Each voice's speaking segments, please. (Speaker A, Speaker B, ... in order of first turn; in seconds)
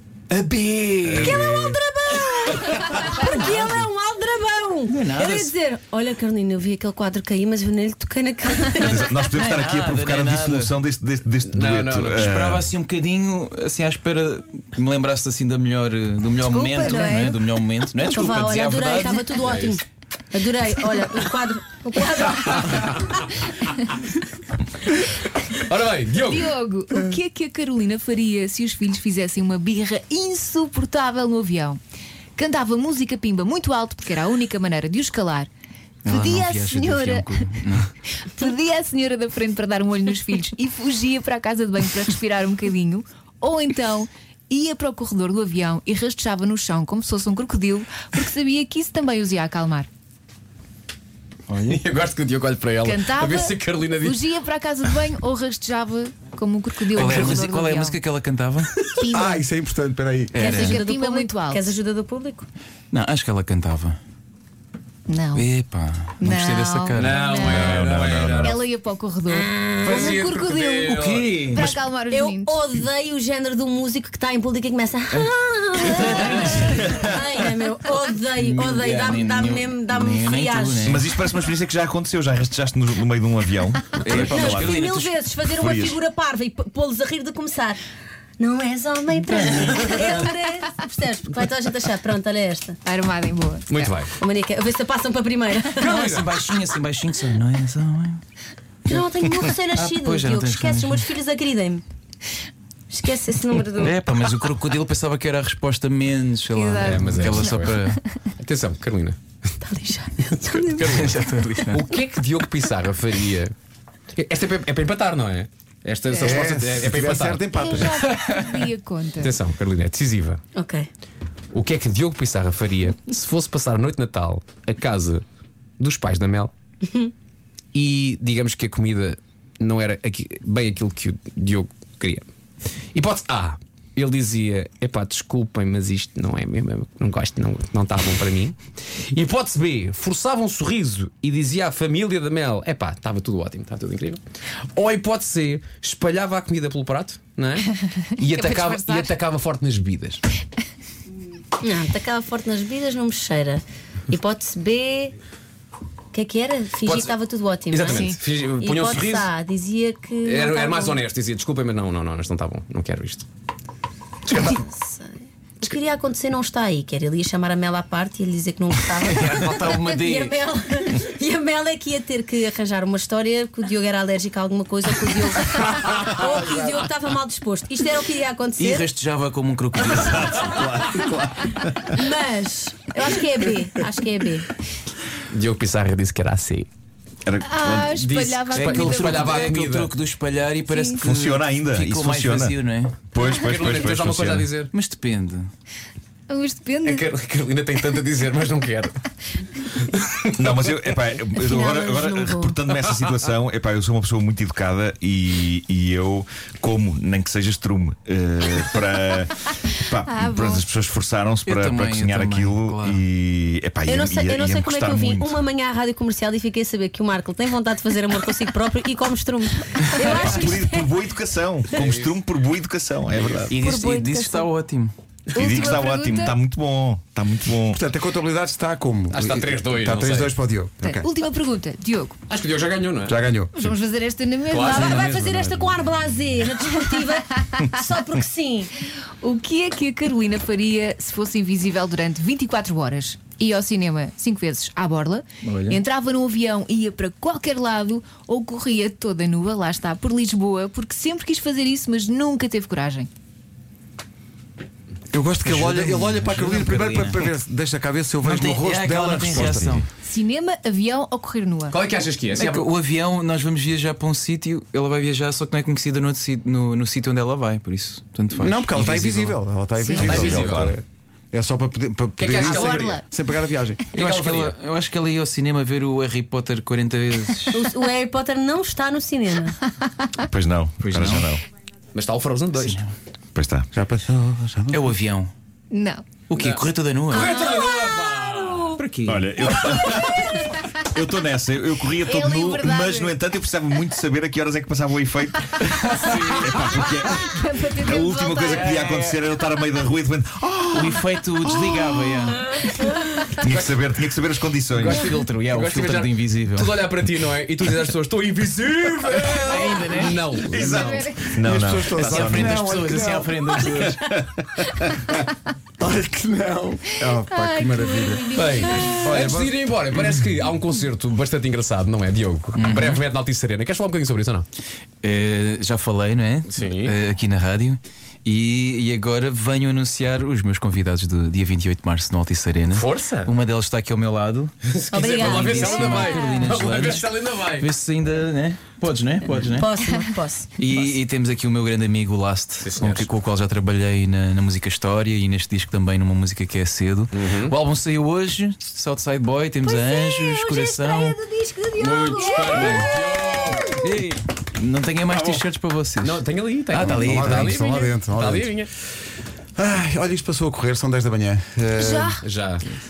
Speaker A: 0.3-1.4, 4.9-5.5, 9.2-10.7, 12.1-19.7, 36.0-37.9, 56.9-58.8, 60.3-60.8, 62.9-64.0, 65.3-67.2, 70.9-71.7, 75.8-77.0, 78.3-81.0, 84.0-85.1, 89.3-90.1, 96.0-98.2, 99.7-101.0, 103.8-108.0, 110.8-111.8, 169.0-170.3, 178.6-180.6, 188.5-193.0, 194.7-195.5, 211.4-213.0, 223.5-224.9, 245.4-245.8, 255.4-257.3, 258.2-259.9, 262.3-269.4, 274.2-277.7, 280.8-281.3, 282.6-282.9, 284.7-285.3, 286.3-287.3, 288.8-289.3, 298.6-299.1, 300.7-302.5, 304.9-306.8, 309.4-310.5, 312.0-314.1, 322.6-323.0, 325.0-334.5, 335.0-339.7, 340.6-351.2, 352.4-352.9, 353.7-357.6
Speaker B: 1.0-1.4, 11.4-12.3, 25.6-26.5, 51.6-54.2, 57.0-57.5, 66.9-68.6, 69.8-71.5, 93.7-94.1, 95.8-96.4, 106.8-107.8, 108.4-109.2, 110.5-111.1, 111.7-113.5, 114.2-117.9, 119.2-120.4, 121.5-125.2, 125.8-126.5, 127.7-132.2, 132.9-138.6, 139.1-144.2, 144.8-147.7, 148.2-150.2, 156.8-157.1, 157.7-159.3, 160.2-163.2, 164.3-164.6, 185.3-186.7, 187.9-189.9, 193.2-194.7, 196.8-199.0, 199.7-200.7, 221.7-222.1, 229.1-230.4, 232.3-233.2, 234.5-235.2, 261.7-262.6, 270.0-270.7, 272.2-273.0, 273.9-274.6, 281.9-282.8, 286.3-288.8, 295.9-296.9, 298.4-299.1, 303.4-303.7, 304.7-311.1, 318.3-324.5, 326.5-326.9, 332.7-333.3, 334.7-337.7, 342.6-343.1, 347.1-347.5, 351.8-353.7, 355.1-355.4, 356.0-358.7, 362.2-362.6
Speaker C: 1.1-9.1, 18.1-23.2, 60.4-62.5, 69.3-70.2, 71.6-81.0, 84.1-87.8, 88.4-92.8, 94.2-96.1, 98.8-101.8, 102.9-104.0, 109.6-110.7, 120.5-120.9, 151.6-155.1, 156.1-161.0, 164.3-178.9, 181.9-184.4, 201.4-202.6, 213.9-220.9, 223.5-224.5, 234.6-238.7, 277.5-279.5, 287.3-288.8, 334.9-336.4, 339.4-340.5, 349.6-353.9
Speaker D: 1.2-1.8, 59.1-60.5, 116.2-118.1, 227.7-231.1, 233.0-233.7, 235.2-235.7, 255.1-259.8, 268.4-274.2, 283.7-284.8, 311.2-313.3, 315.8-318.4, 319.0-320.1, 356.8-358.6, 359.6-362.2
Speaker E: 8.8-12.7, 67.3-68.6, 76.7-77.1, 80.8-84.8, 85.5-86.0, 179.9-182.0, 187.2-188.4, 191.0-194.5, 200.4-215.4, 220.0-223.6, 225.3-227.8, 259.2-259.8, 270.1-270.7, 280.2-281.4, 283.3-283.7, 289.0-302.7, 303.3-305.0, 309.0-312.8, 313.8-315.1
Speaker F: 16.4-17.4, 26.3-31.8, 32.4-35.5, 36.0-37.4, 38.2-49.9, 52.8-58.0, 59.0-59.4, 60.5-61.8, 65.1-65.5, 66.2-72.6, 92.8-93.9, 106.5-108.2, 110.5-111.0, 116.1-116.4, 117.5-119.4, 148.0-149.2, 157.8-158.2, 187.4-189.5, 190.7-191.0, 196.3-197.1, 210.0-210.7, 225.3-226.4, 230.8-232.2, 233.5-235.2, 239.2-253.1, 260.0-261.8, 272.4-273.0, 285.7-286.1, 291.9-293.1, 297.1-298.6, 310.6-311.2, 317.2-319.1, 351.9-352.4, 361.8-362.2